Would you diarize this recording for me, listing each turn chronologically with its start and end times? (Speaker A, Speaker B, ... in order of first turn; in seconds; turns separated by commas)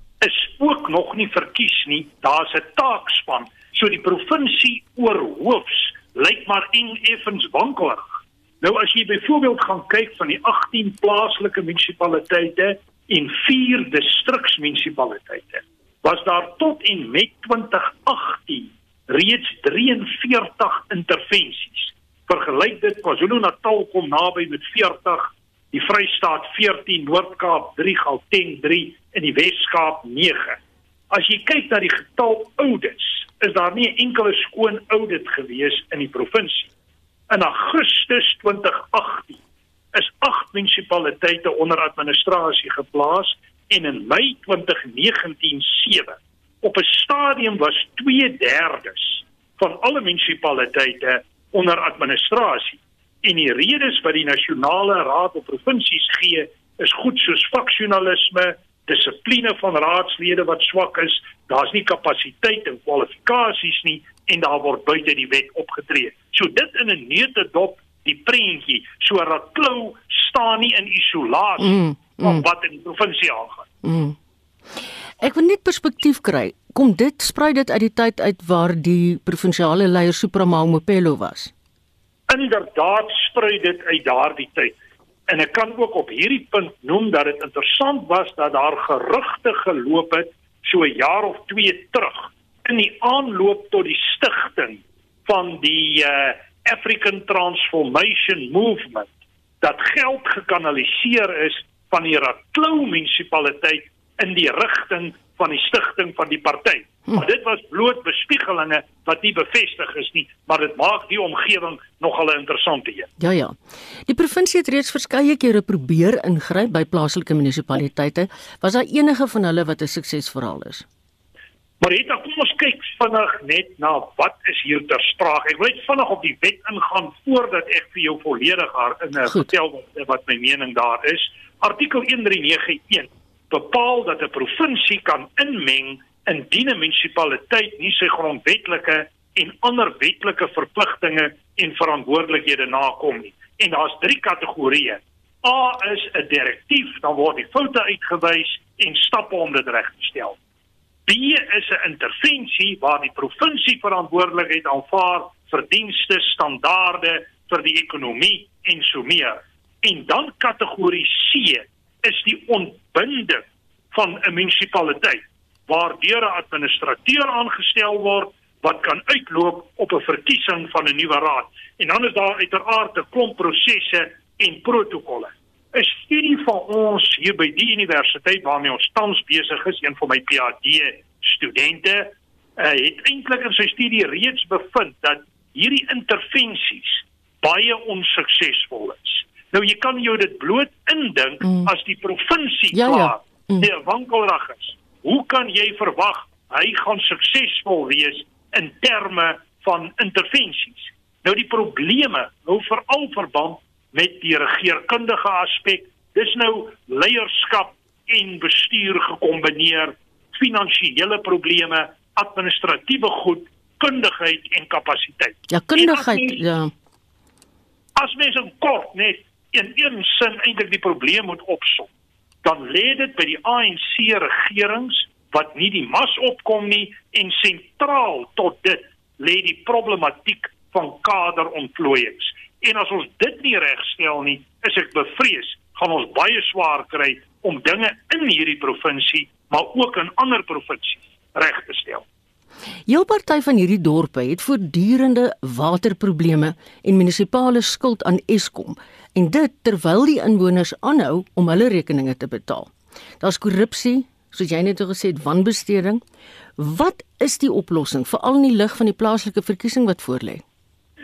Speaker A: 0.2-30.6, Speaker A: 31.1-36.7, Speaker A: 37.3-39.4, Speaker A: 39.9-73.7, Speaker B: 71.6-72.4, Speaker B: 73.8-74.2, Speaker B: 75.2-81.5, Speaker A: 82.3-84.7, Speaker A: 85.3-99.1, Speaker A: 99.6-113.1, Speaker B: 113.2-113.5, Speaker B: 114.1-120.8, Speaker A: 121.8-150.4, Speaker B: 129.2-129.5, Speaker A: 151.1-216.4, Speaker B: 191.4-191.7, Speaker B: 192.7-193.7, Speaker B: 215.5-216.7, Speaker A: 217.9-221.9, Speaker A: 222.4-242.0, Speaker B: 242.9-256.0, Speaker B: 256.6-260.4